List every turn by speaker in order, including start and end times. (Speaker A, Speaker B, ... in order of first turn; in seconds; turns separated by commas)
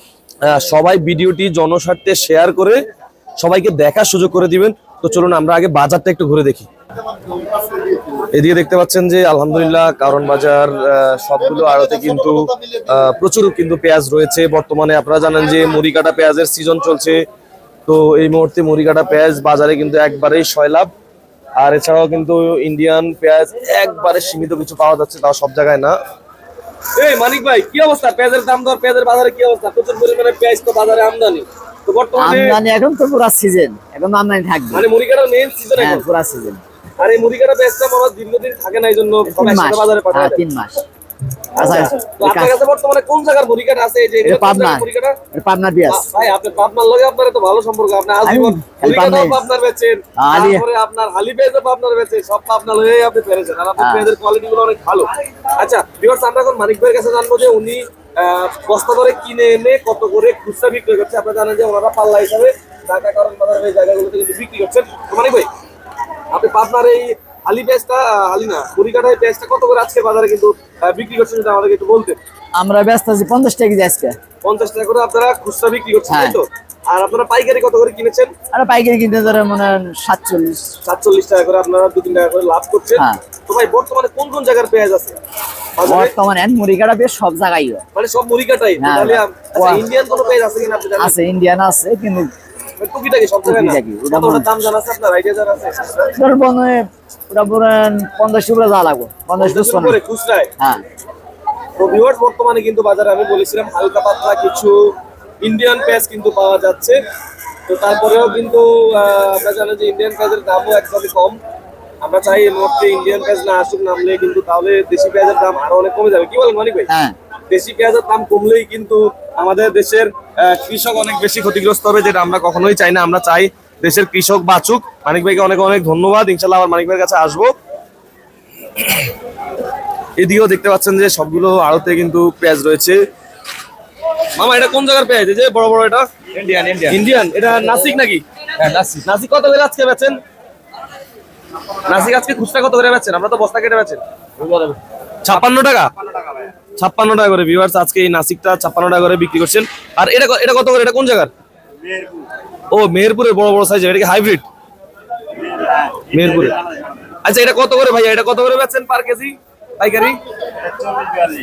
Speaker A: 0.4-2.8, Speaker A: 3.4-6.7, Speaker A: 8.2-17.2, Speaker A: 17.9-20.9, Speaker A: 21.6-26.0, Speaker A: 27.0-32.6, Speaker B: 32.2-34.9, Speaker A: 34.7-36.0, Speaker B: 35.8-36.6, Speaker A: 37.0-40.4, Speaker B: 39.3-40.8, Speaker B: 41.5-42.5, Speaker A: 41.5-45.2, Speaker B: 44.2-46.0, Speaker A: 45.9-65.5, Speaker B: 48.2-49.4, Speaker B: 50.2-50.6, Speaker B: 53.8-54.1, Speaker A: 66.3-72.2, Speaker B: 72.6-74.2, Speaker A: 74.4-78.3, Speaker B: 76.1-76.4, Speaker B: 78.5-80.7, Speaker A: 80.8-85.2, Speaker A: 85.8-86.1, Speaker B: 85.8-87.8, Speaker A: 87.9-91.2, Speaker B: 88.8-89.8, Speaker B: 91.0-92.3, Speaker A: 92.8-96.1, Speaker B: 93.5-94.5, Speaker B: 96.2-100.0, Speaker A: 99.4-100.5, Speaker B: 100.6-100.8, Speaker A: 101.8-107.0, Speaker A: 107.7-111.4, Speaker A: 112.0-116.9, Speaker B: 116.9-117.2, Speaker A: 117.5-127.5, Speaker A: 130.2-133.0, Speaker A: 134.4-136.1, Speaker A: 136.7-140.2, Speaker A: 141.8-144.0, Speaker A: 145.2-145.9, Speaker A: 146.8-151.3, Speaker A: 152.7-154.4, Speaker A: 156.1-156.6, Speaker A: 157.2-160.2